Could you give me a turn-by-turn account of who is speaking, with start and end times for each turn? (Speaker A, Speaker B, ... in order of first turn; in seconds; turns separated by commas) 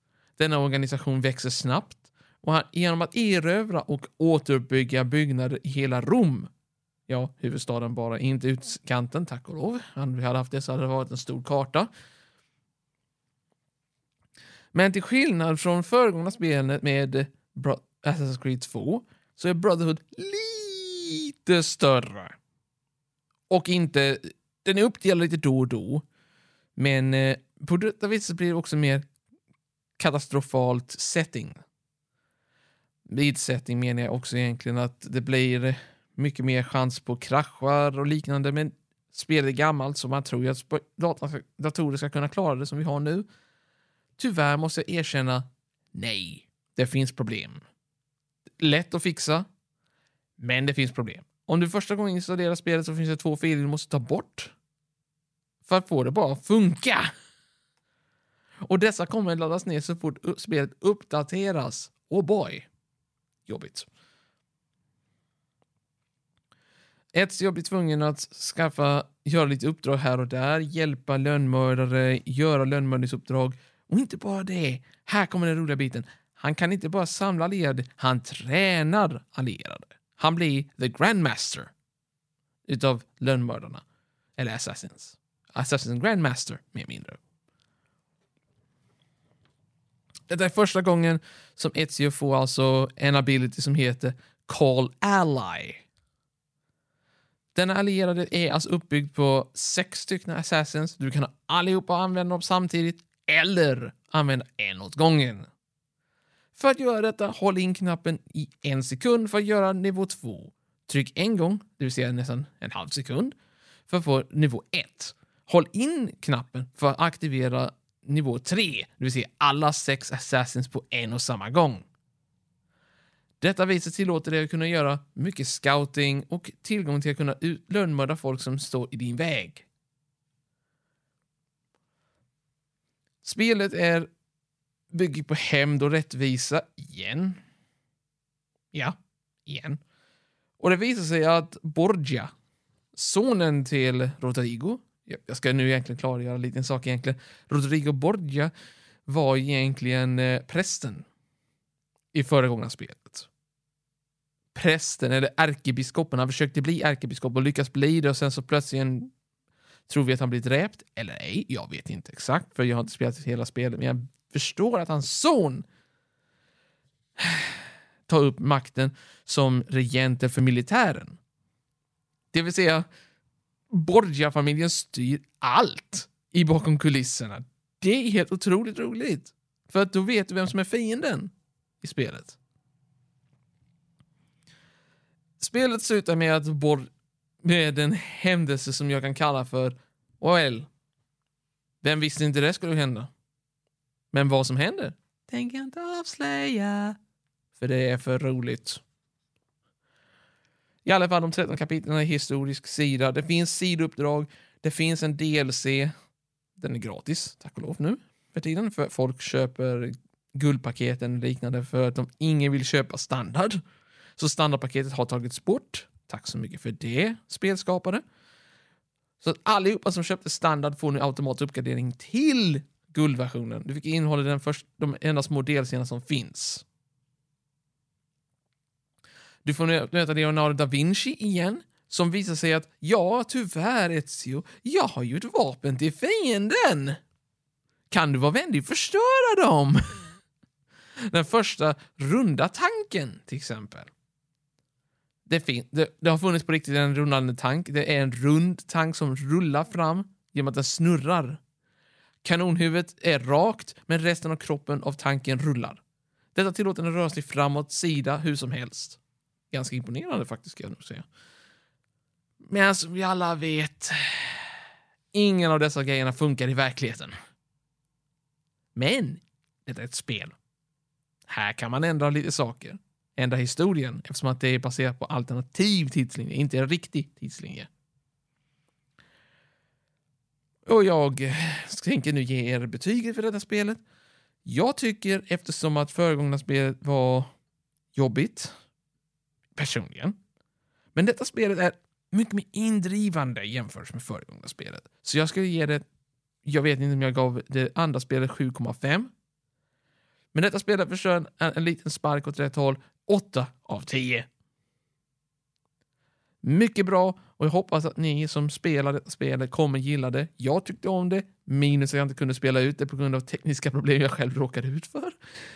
Speaker A: 0.4-6.5, Speaker A: 7.1-11.9, Speaker A: 14.7-22.4, Speaker A: 23.5-26.0, Speaker A: 26.8-29.1, Speaker A: 30.0-31.6, Speaker A: 33.0-43.2, Speaker A: 44.2-47.6, Speaker A: 48.6-49.5, Speaker A: 50.4-54.5, Speaker A: 55.6-57.1, Speaker A: 58.6-62.7, Speaker A: 63.5-63.9, Speaker A: 67.1-81.7, Speaker A: 82.7-83.8, Speaker A: 84.4-87.2, Speaker A: 90.3-95.8, Speaker A: 97.5-105.5, Speaker A: 106.5-113.3, Speaker A: 113.9-121.8, Speaker A: 123.4-129.7, Speaker A: 133.2-134.1, Speaker A: 134.9-137.4, Speaker A: 138.7-139.8, Speaker A: 140.6-142.3, Speaker A: 142.9-148.5, Speaker A: 149.1-151.1, Speaker A: 152.1-153.3, Speaker A: 154.5-159.1, Speaker A: 159.9-165.6, Speaker A: 167.2-171.2, Speaker A: 172.3-172.8, Speaker A: 173.7-182.4, Speaker A: 185.4-186.9, Speaker A: 187.4-190.7, Speaker A: 191.8-193.1, Speaker A: 194.1-197.0, Speaker A: 197.5-198.8, Speaker A: 200.8-205.9, Speaker A: 206.6-213.6, Speaker A: 214.2-218.0, Speaker A: 219.2-226.7, Speaker A: 229.4-237.0, Speaker A: 237.9-240.1, Speaker A: 241.1-243.9, Speaker A: 245.2-251.4, Speaker A: 252.2-255.8, Speaker A: 256.3-259.0, Speaker A: 259.5-261.1, Speaker A: 262.4-264.6, Speaker A: 265.1-267.1, Speaker A: 268.7-270.4, Speaker A: 271.3-277.7, Speaker A: 280.6-283.8, Speaker A: 284.4-287.3, Speaker A: 287.9-288.5, Speaker A: 289.6-290.2, Speaker A: 290.9-295.8, Speaker A: 296.4-299.1, Speaker A: 300.3-304.3, Speaker A: 306.4-315.1